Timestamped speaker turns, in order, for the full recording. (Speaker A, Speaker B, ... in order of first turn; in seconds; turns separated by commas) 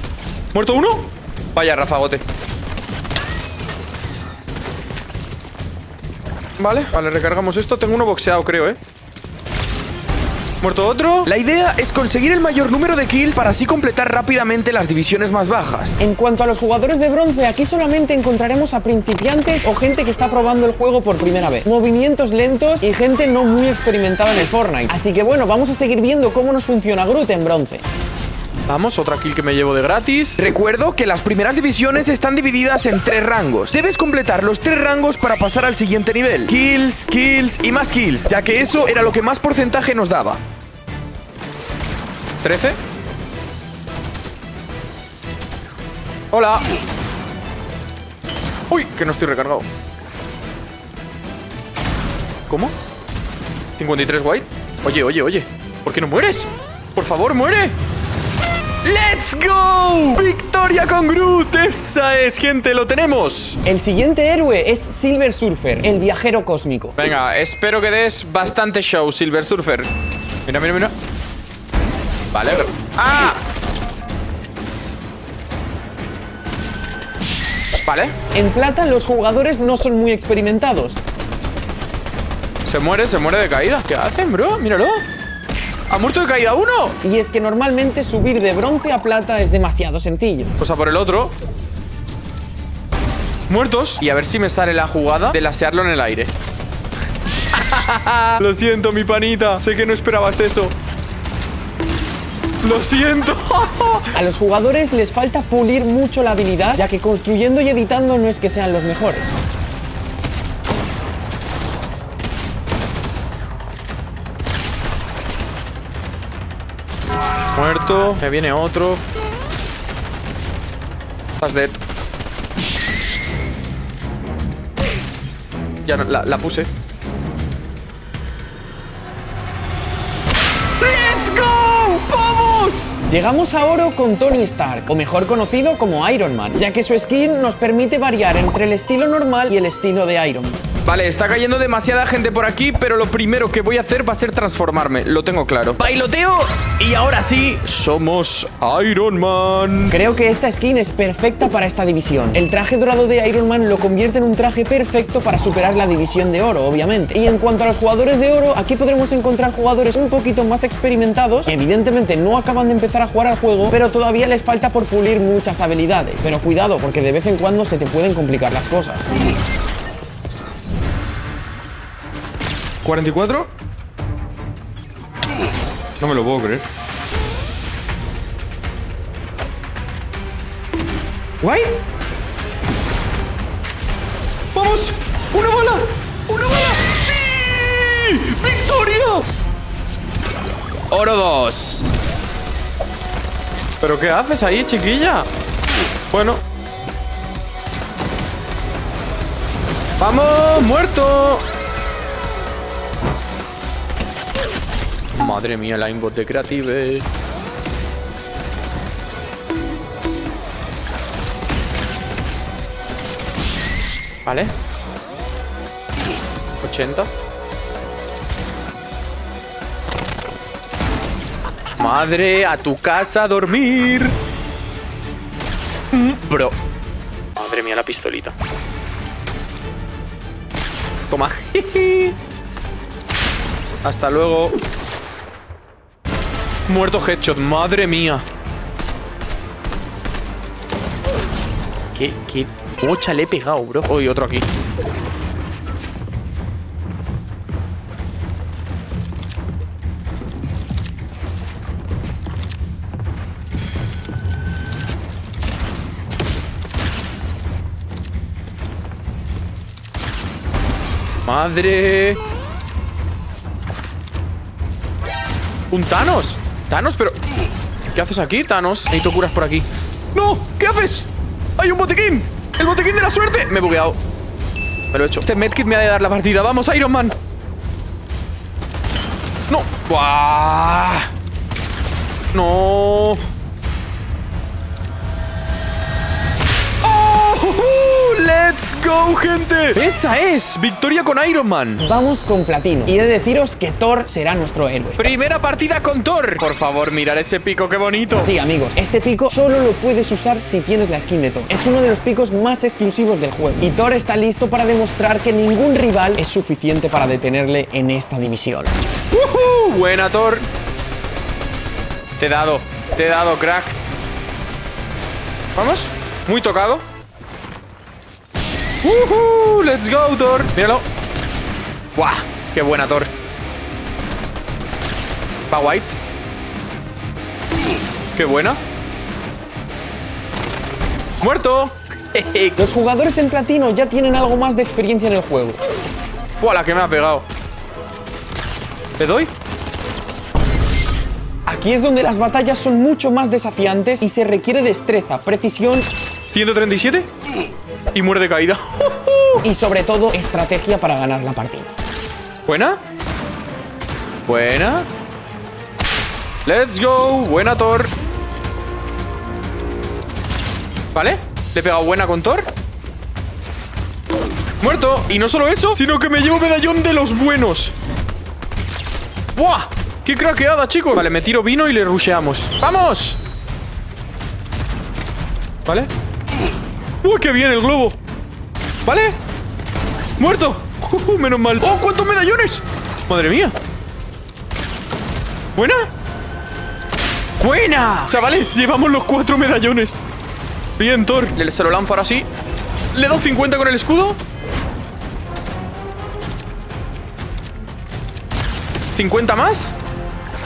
Speaker A: 0.5-2.2, Speaker A: 6.6-8.8, Speaker A: 10.6-16.0, Speaker B: 16.0-27.8, Speaker A: 28.7-40.4, Speaker A: 42.4-42.8, Speaker A: 46.3-46.7, Speaker A: 48.7-49.7, Speaker A: 52.5-52.7, Speaker A: 53.8-57.7, Speaker A: 58.8-63.6, Speaker B: 63.6-67.0, Speaker A: 67.0-69.9, Speaker A: 70.5-70.9, Speaker A: 72.3-73.4, Speaker A: 77.8-78.2, Speaker B: 78.3-81.0, Speaker A: 82.6-85.0, Speaker A: 85.9-87.0, Speaker B: 87.0-90.5, Speaker A: 90.6-91.3, Speaker A: 93.5-96.3, Speaker A: 97.5-100.7, Speaker A: 102.6-104.1, Speaker B: 104.1-109.4, Speaker A: 117.5-119.0, Speaker A: 121.4-121.8, Speaker A: 125.8-126.7, Speaker A: 130.8-133.0, Speaker B: 133.1-140.6, Speaker A: 140.8-150.0, Speaker B: 149.9-169.1, Speaker A: 172.8-173.5, Speaker A: 176.0-176.7, Speaker A: 181.4-181.8, Speaker A: 184.5-189.3, Speaker A: 190.9-191.9, Speaker A: 193.8-195.3, Speaker A: 196.1-196.4, Speaker A: 200.0-201.4, Speaker A: 205.2-207.1, Speaker A: 214.2-214.5, Speaker A: 216.6-217.1, Speaker A: 221.8-224.2, Speaker A: 225.9-226.6, Speaker A: 227.4-228.3, Speaker A: 231.1-232.2, Speaker A: 233.8-234.6, Speaker A: 236.7-238.2, Speaker A: 241.9-244.5, Speaker A: 261.2-262.2, Speaker A: 265.7-267.2, Speaker A: 267.9-274.0, Speaker A: 274.9-277.1, Speaker A: 279.5-281.1, Speaker A: 282.3-283.2, Speaker A: 286.8-291.8, Speaker B: 291.8-295.1, Speaker A: 295.0-298.3, Speaker B: 298.2-308.8, Speaker A: 309.1-310.5, Speaker A: 312.2-313.8, Speaker A: 315.6-316.9, Speaker A: 318.8-320.9, Speaker A: 321.9-323.1, Speaker A: 325.5-325.9, Speaker A: 328.1-328.6, Speaker A: 331.2-332.7, Speaker B: 332.6-335.6, Speaker A: 336.4-337.2, Speaker A: 339.0-339.3, Speaker B: 341.5-345.9, Speaker A: 346.3-347.1, Speaker A: 347.9-349.4, Speaker B: 349.4-351.7, Speaker A: 352.4-352.8, Speaker A: 354.2-354.9, Speaker A: 356.4-357.9, Speaker A: 360.9-362.5, Speaker A: 364.6-367.7, Speaker A: 369.4-373.2, Speaker A: 377.0-378.0, Speaker A: 378.9-379.2, Speaker A: 380.2-383.6, Speaker A: 385.6-385.9, Speaker A: 387.4-389.9, Speaker A: 390.8-392.3, Speaker A: 392.9-394.2, Speaker A: 398.9-399.8